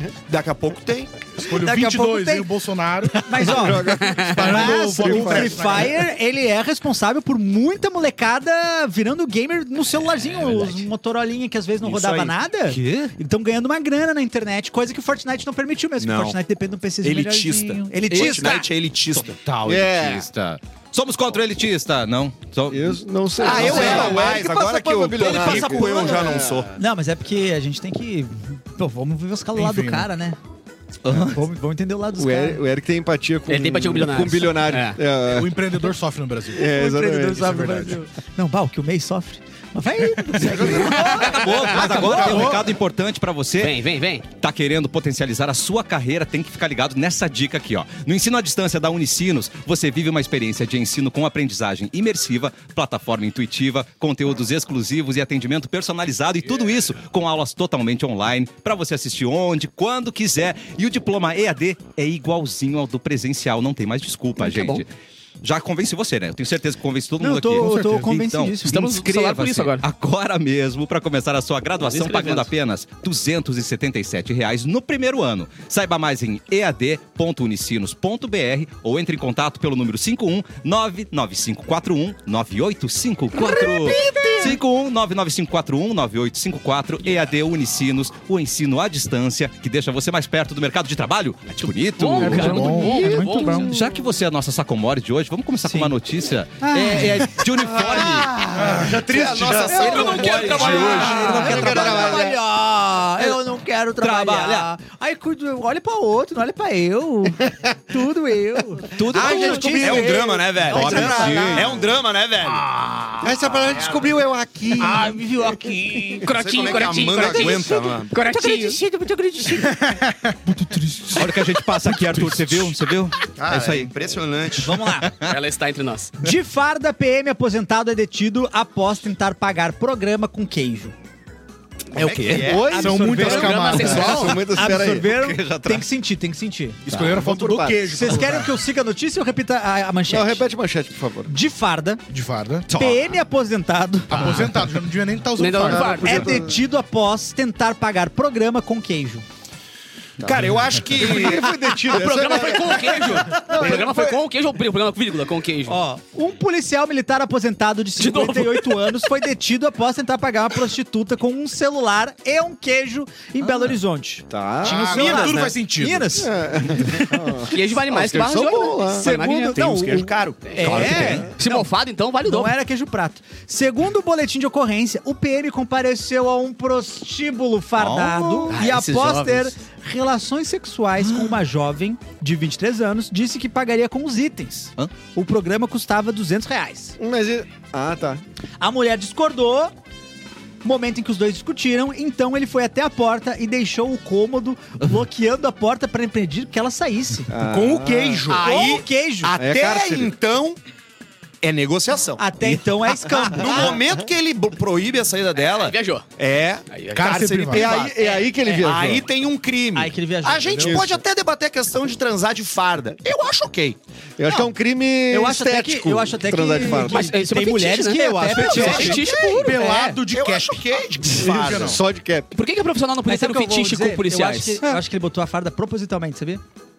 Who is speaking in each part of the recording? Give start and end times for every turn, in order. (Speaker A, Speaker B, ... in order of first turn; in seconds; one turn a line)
Speaker A: 0.3-1.3
Speaker B: 1.3-6.0
Speaker C: 1.4-2.5
Speaker C: 3.1-18.7
Speaker D: 3.3-5.8
Speaker E: 3.9-4.4
Speaker F: 10.5-10.8
Speaker A: 11.8-12.4
Speaker F: 12.7-13.1
Speaker A: 16.0-16.4
Speaker A: 17.0-19.4
Speaker F: 18.1-18.6
Speaker F: 19.1-24.3
Speaker D: 19.6-20.3
Speaker D: 22.7-26.7
Speaker A: 23.4-26.7
Speaker C: 23.4-24.3
Speaker C: 25.2-25.8
Speaker C: 26.8-30.4
Speaker B: 29.6-30.1
Speaker F: 31.0-31.4
Speaker C: 31.1-32.6
Speaker D: 32.1-35.6
Speaker E: 33.5-35.0
Speaker B: 35.2-36.7
Speaker D: 36.5-37.9
Speaker C: 36.6-42.6
Speaker B: 37.4-38.0
Speaker B: 40.3-41.0
Speaker F: 40.4-64.8
Speaker B: 41.6-42.7
Speaker E: 43.6-44.2
Speaker E: 64.4-64.8
Speaker F: 65.4-92.8
Speaker C: 67.2-68.8
Speaker E: 68.7-69.8
Speaker E: 71.8-72.5
Speaker D: 83.3-84.6
Speaker C: 84.1-84.4
Speaker E: 91.6-93.7
Speaker B: 92.2-93.7
Speaker D: 92.8-93.6
Speaker C: 92.9-93.4
Speaker F: 93.5-98.4
Speaker C: 95.6-95.9
Speaker C: 96.6-97.3
Speaker D: 97.6-102.4
Speaker B: 98.6-99.8
Speaker A: 98.7-102.0
Speaker C: 99.7-111.8
Speaker E: 99.7-101.1
Speaker F: 100.6-102.2
Speaker F: 104.0-104.7
Speaker F: 108.9-111.8
Speaker A: 109.2-112.7
Speaker D: 110.9-111.6
Speaker C: 112.7-113.3
Speaker D: 113.2-115.2
Speaker A: 113.5-114.1
Speaker C: 114.7-116.3
Speaker E: 116.2-118.8
Speaker A: 116.3-118.1
Speaker C: 117.3-119.8
Speaker B: 119.8-120.3
Speaker C: 120.5-122.0
Speaker F: 121.1-123.9
Speaker B: 122.1-122.5
Speaker A: 123.3-124.8
Speaker C: 124.6-125.1
Speaker F: 125.0-125.3
Speaker E: 125.2-126.1
Speaker C: 126.2-130.9
Speaker A: 131.9-132.9
Speaker F: 132.0-132.4
Speaker D: 132.2-135.1
Speaker C: 132.5-136.8
Speaker B: 132.7-134.3
Speaker E: 133.1-134.4
Speaker F: 135.0-135.9
Speaker B: 136.8-138.6
Speaker D: 136.9-138.3
Speaker C: 137.9-140.4
Speaker D: 140.1-141.3
Speaker C: 141.3-142.0
Speaker B: 142.1-142.7
Speaker F: 142.7-143.1
Speaker C: 142.7-144.5
Speaker B: 144.1-146.2
Speaker E: 145.4-146.4
Speaker D: 145.7-146.6
Speaker C: 146.0-149.2
Speaker A: 150.2-151.5
Speaker D: 150.9-154.2
Speaker E: 151.8-155.8
Speaker C: 155.7-167.2
Speaker E: 158.0-159.1
Speaker F: 163.4-163.8
Speaker D: 164.3-165.4
Speaker B: 164.6-166.2
Speaker A: 165.0-165.5
Speaker D: 166.1-169.1
Speaker E: 167.4-169.9
Speaker C: 169.0-171.7
Speaker A: 169.1-171.3
Speaker E: 170.4-172.6
Speaker F: 170.7-171.3
Speaker C: 172.2-186.9
Speaker F: 177.8-178.6
Speaker E: 178.5-179.5
Speaker F: 181.0-181.4
Speaker D: 187.0-188.2
Speaker C: 188.6-189.7
Speaker C: 190.6-197.3
Speaker D: 197.3-198.3
Speaker B: 197.4-198.5
Speaker A: 198.3-200.6
Speaker C: 198.3-199.3
Speaker D: 199.4-200.1
Speaker A: 201.4-202.2
Speaker C: 202.2-203.8
Speaker F: 202.4-203.1
Speaker A: 203.3-207.9
Speaker D: 203.4-203.8
Speaker E: 205.3-206.0
Speaker E: 206.7-208.3
Speaker B: 206.9-207.8
Speaker D: 207.5-209.1
Speaker A: 208.6-213.8
Speaker C: 209.7-210.8
Speaker D: 210.5-211.0
Speaker D: 214.2-217.1
Speaker C: 214.2-214.5
Speaker C: 215.1-220.0
Speaker E: 216.7-219.6
Speaker F: 218.1-219.0
Speaker B: 218.4-221.8
Speaker A: 218.5-219.3
Speaker A: 220.1-221.8
Speaker D: 221.3-222.3
Speaker E: 222.3-224.7
Speaker C: 223.1-226.4